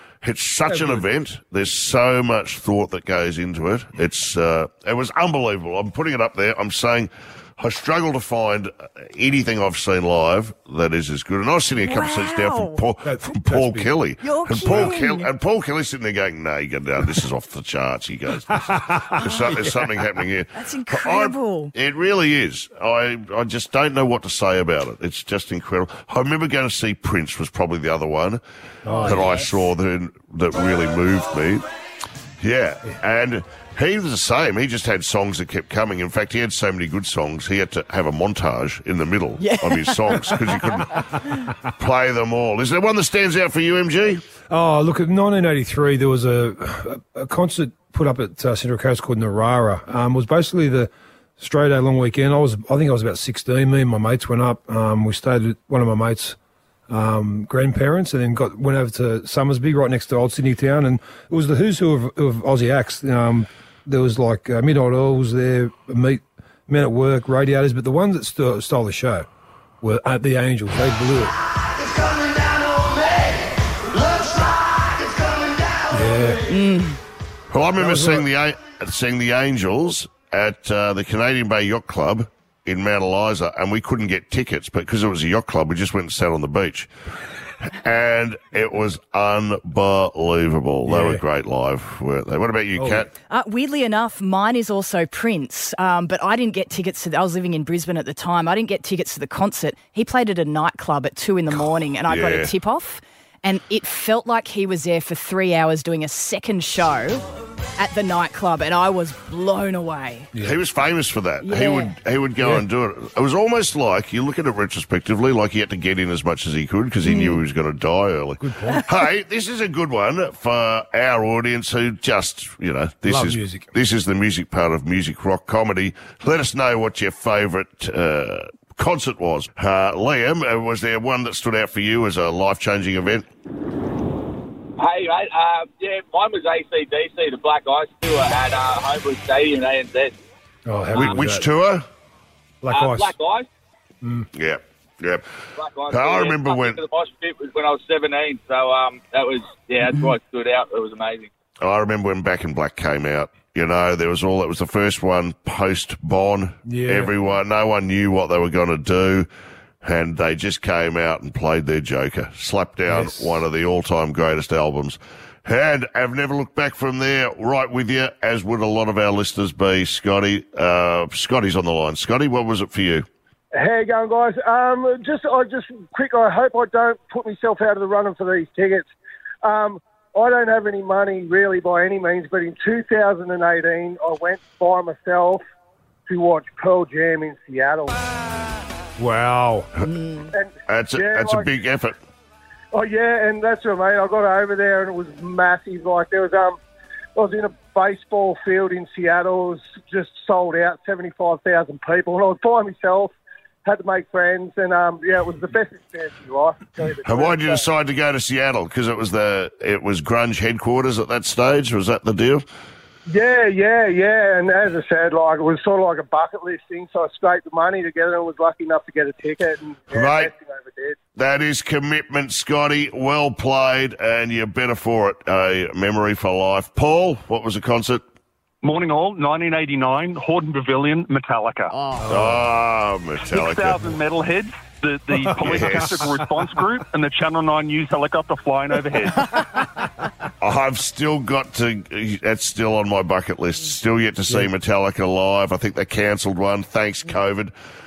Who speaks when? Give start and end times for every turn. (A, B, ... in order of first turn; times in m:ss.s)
0:00.2-0:28.4 A
0:00.7-0:01.0 B
0:11.8-0:12.8 C
0:13.0-0:13.9 B
0:14.2-0:15.3 C
0:14.6-0:15.0 B
0:18.5-0:19.9 B
0:20.5-0:21.7 C
0:28.8-0:29.3 B
0:28.9-0:29.5 C
0:29.0-0:31.6 A
0:32.4-0:41.1 A
0:39.4-0:40.4 C
0:41.8-0:44.2 A
0:44.5-0:56.4 B
0:56.9-1:09.3 B
1:09.8-1:11.3 B
1:15.9-1:16.4 B
1:16.5-1:17.0 C
1:17.5-1:26.9 A
1:17.8-1:18.3 B
1:27.6-1:33.1 A
1:30.9-1:31.2 B
1:32.8-1:33.1 B
1:33.3-1:47.2 C
1:42.1-1:42.5 A
1:47.8-1:50.3 C
1:50.3-1:50.6 B
1:50.4-2:13.3 A
1:51.4-1:52.0 C
1:52.4-1:52.6 B
1:57.1-1:57.4 C
1:58.4-1:58.8 B
2:03.1-2:03.7 B
2:14.8-2:20.1 D
2:20.7-2:21.5 B
2:20.9-2:21.9 A
2:22.6-2:23.1 B
2:22.7-2:23.5 D
2:24.0-2:24.3 B
2:24.3-2:25.2 A
2:25.6-2:31.3 D
2:25.9-2:26.8 A
2:31.6-2:39.3 A
2:36.7-2:37.1 B
2:39.8-2:53.1 A
2:42.9-2:43.4 B
2:53.6-2:58.9 E
2:59.4-3:05.4 E
3:06.1-3:08.0 E
3:09.0-3:09.7 B
3:09.8-3:10.3 C
3:10.3-3:11.5 E
3:10.7-3:12.0 A
3:12.7-3:16.6 E
3:17.2-3:23.1 E
3:23.6-3:27.6 E
3:27.0-3:32.4 A
3:33.1-3:41.0 E
3:39.9-3:40.3 A
3:41.2-3:48.0 A
3:48.6-3:51.7 F
3:51.7-3:52.0 C
3:52.0-3:52.4 B
3:52.1-3:54.0 A
3:53.3-3:59.2 F
3:55.3-3:56.2 A
4:00.4-4:07.5 A